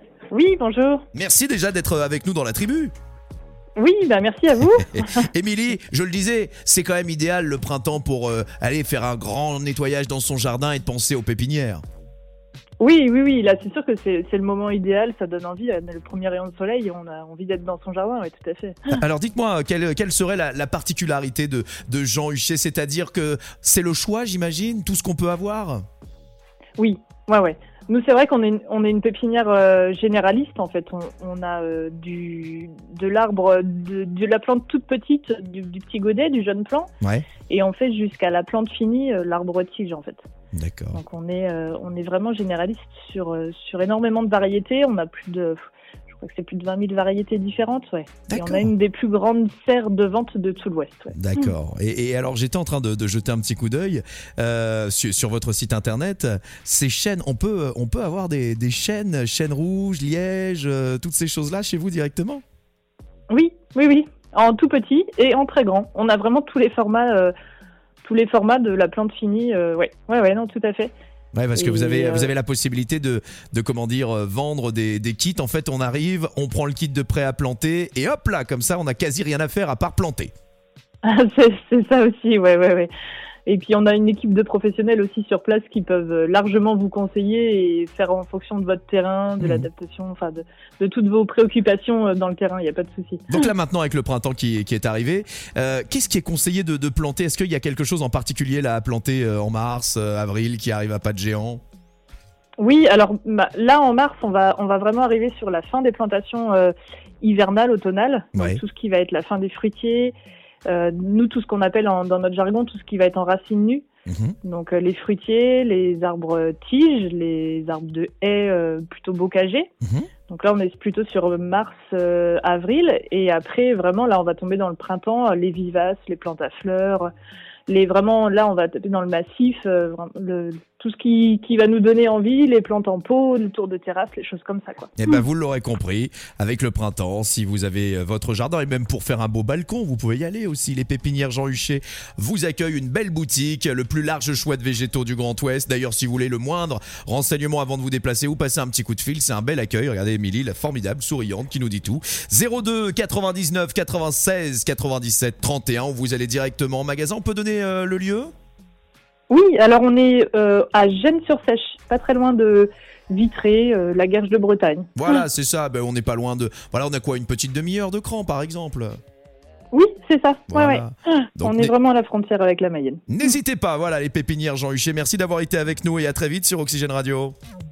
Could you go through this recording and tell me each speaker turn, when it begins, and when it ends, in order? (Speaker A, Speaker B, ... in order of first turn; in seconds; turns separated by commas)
Speaker A: 0.3-1.0, Speaker B: 1.1-2.9, Speaker A: 3.8-5.3, Speaker B: 4.6-11.8, Speaker A: 12.8-18.9, Speaker B: 18.9-25.8, Speaker A: 26.8-36.9, Speaker B: 37.0-37.3, Speaker A: 37.5-40.2, Speaker B: 40.5-41.0, Speaker A: 40.9-45.6, Speaker A: 46.1-51.5, Speaker B: 48.3-48.7, Speaker B: 51.1-62.4, Speaker A: 63.3-67.3, Speaker A: 68.0-70.9, Speaker B: 71.3-80.3, Speaker A: 71.5-72.3, Speaker A: 81.0-82.9, Speaker A: 83.5-93.2, Speaker B: 89.4-89.7, Speaker B: 93.3-101.6, Speaker A: 102.6-110.2, Speaker B: 108.3-108.6, Speaker A: 110.7-113.8, Speaker B: 114.1-114.3, Speaker A: 114.4-119.7, Speaker A: 120.3-127.1, Speaker A: 127.7-134.9, Speaker B: 135.0-158.3, Speaker A: 159.3-165.2, Speaker B: 164.9-169.0, Speaker A: 169.7-173.0, Speaker B: 170.5-171.7, Speaker B: 173.1-177.3